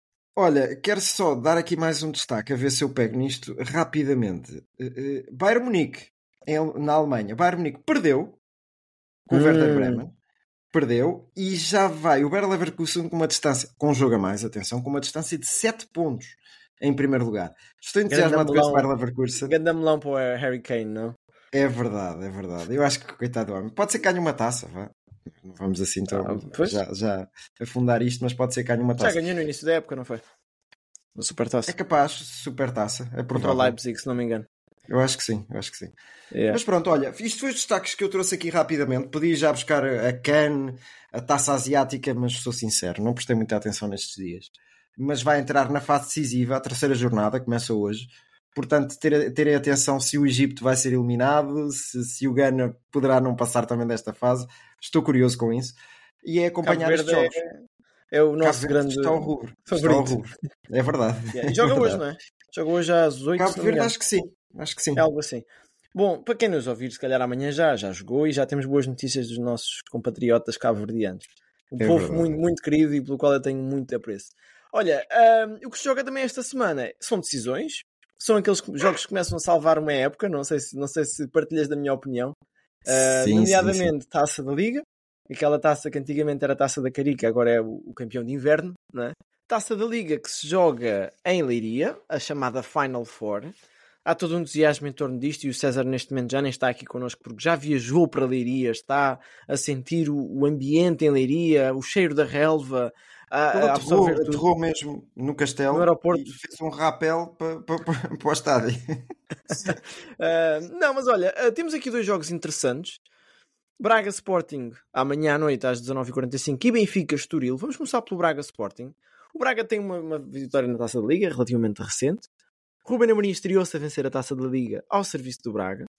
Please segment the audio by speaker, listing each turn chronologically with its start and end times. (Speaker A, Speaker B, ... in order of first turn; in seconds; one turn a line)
Speaker A: 0.3-8.4
Speaker A: 9.2-10.1
Speaker B: 9.3-10.0
Speaker A: 10.7-19.5
Speaker B: 18.1-21.2
Speaker A: 21.5-29.2
Speaker B: 26.1-26.8
Speaker B: 29.0-30.2
Speaker B: 31.1-31.7
Speaker A: 31.7-33.8
Speaker B: 33.3-34.5
Speaker A: 34.9-35.9
Speaker B: 36.3-36.6
Speaker A: 36.5-57.4
Speaker B: 56.6-57.6
Speaker B: 58.1-60.2
Speaker A: 58.4-62.0
Speaker B: 61.3-63.9
Speaker A: 63.4-65.0
Speaker B: 65.0-82.3
Speaker A: 71.8-72.3
Speaker A: 82.9-83.9
Speaker B: 82.9-93.5
Speaker B: 94.0-104.4
Speaker A: 103.5-108.9
Speaker B: 105.7-106.3
Speaker B: 109.5-113.0
Speaker B: 113.8-122.3
Speaker B: 122.8-125.9